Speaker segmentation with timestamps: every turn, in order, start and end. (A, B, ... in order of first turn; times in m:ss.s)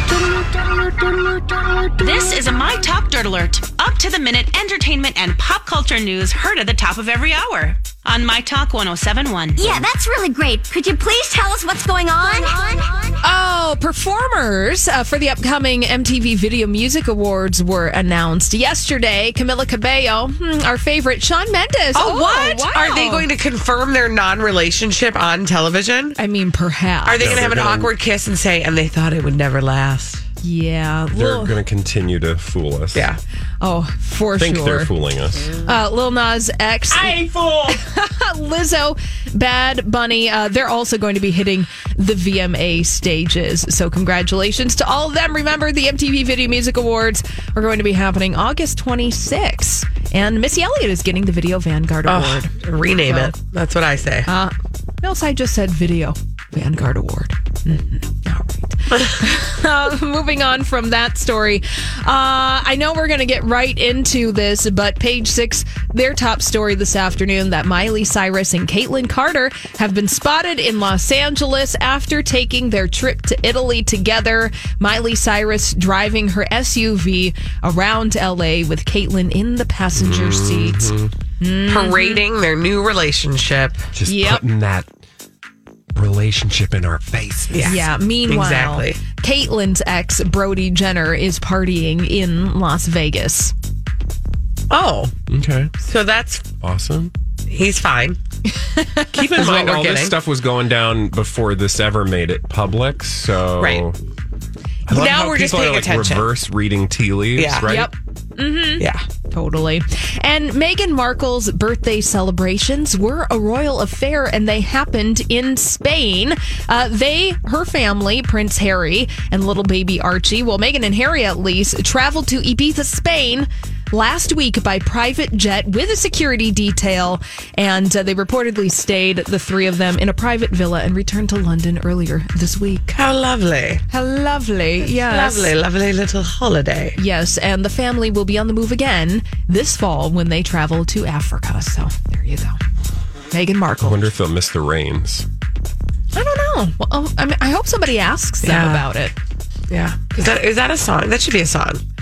0:02.0-0:09.8 A
0:09.6-0:13.2 B
0:13.2-0:23.3 C
0:21.9-0:26.2 D
0:26.2-0:27.5 C
0:27.0-0:30.2 D
0:27.2-0:27.9 E
0:30.4-0:31.6 C
0:31.1-0:33.1 E
0:32.9-0:33.2 D
0:33.6-0:34.9 C
0:34.4-0:35.5 E
0:35.5-0:52.5 C
0:52.1-0:54.3 D
0:54.2-1:22.2 C
1:19.9-1:21.1 E
1:21.7-1:23.9 D
1:23.9-1:24.9 E
1:24.0-1:24.4 C
1:25.9-1:27.9 E
1:27.5-1:29.0 D
1:27.6-1:33.5 C
1:34.7-1:35.1 D
1:35.3-1:35.7 E
1:35.8-1:36.4 D
1:36.6-1:37.1 E
1:37.5-1:38.2 D
1:38.7-1:39.2 C
1:39.1-1:44.0 E
1:39.2-1:40.2 D
1:43.6-1:43.8 D
1:44.8-1:47.9 E
1:44.9-1:46.3 D
1:47.3-1:47.7 D
1:47.6-2:12.9 C
1:48.8-1:49.0 D
2:12.9-2:13.8 D
2:13.9-2:15.5 C
2:14.9-2:17.0 D
2:16.9-2:22.6 C
2:23.3-2:24.1 C
2:23.8-2:25.3 E
2:26.1-2:29.1 C
2:28.4-2:28.8 D
2:29.7-2:31.8 D